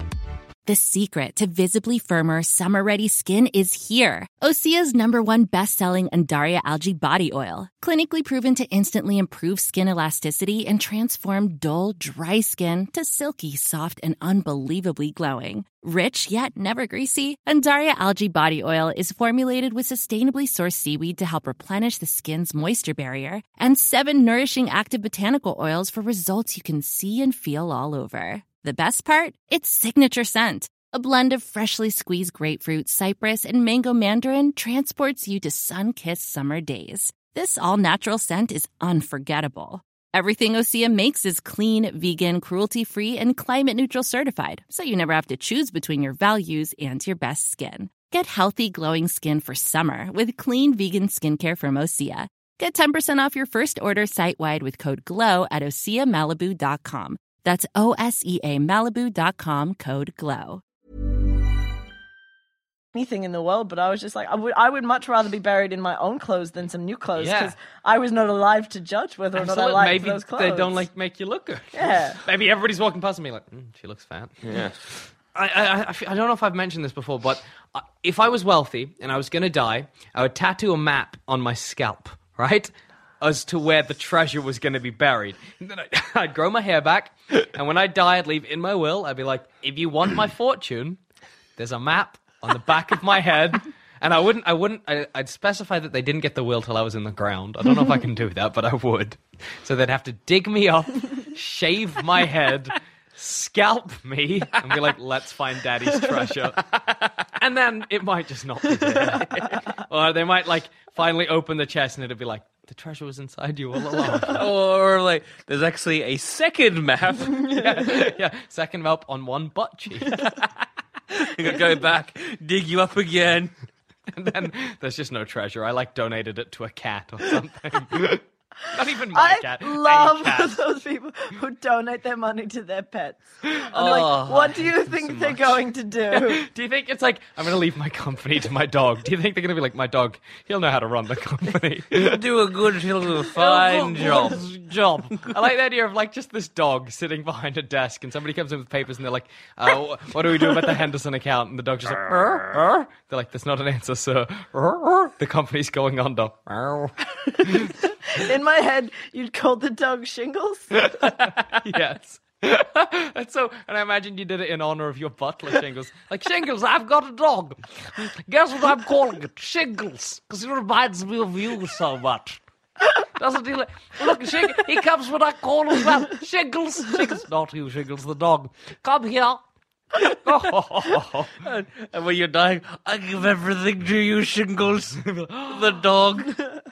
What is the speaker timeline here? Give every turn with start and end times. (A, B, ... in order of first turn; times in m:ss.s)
0:00.6-1:00.6 A
1:02.9-1:10.8 B
1:07.2-1:07.6 C
1:09.4-1:14.5 C
1:11.7-1:12.2 B
1:14.4-1:14.8 D
1:15.3-1:31.0 C
1:31.6-1:46.8 C
1:47.3-1:54.4 C
1:54.2-1:57.8 D
1:57.4-2:00.3 C
2:00.1-2:00.5 D
2:01.1-2:03.5 D
2:04.1-2:10.6 C
2:09.1-2:16.4 B
2:13.7-2:15.6 D
2:16.1-2:22.2 C
2:21.9-2:24.4 D
2:23.3-2:37.7 C
2:32.1-2:32.4 D
2:38.1-2:40.9 B
2:40.8-2:52.4 C
2:53.2-2:59.4 C
3:00.2-3:01.4 C
3:01.4-3:06.5 D
3:05.0-3:05.6 C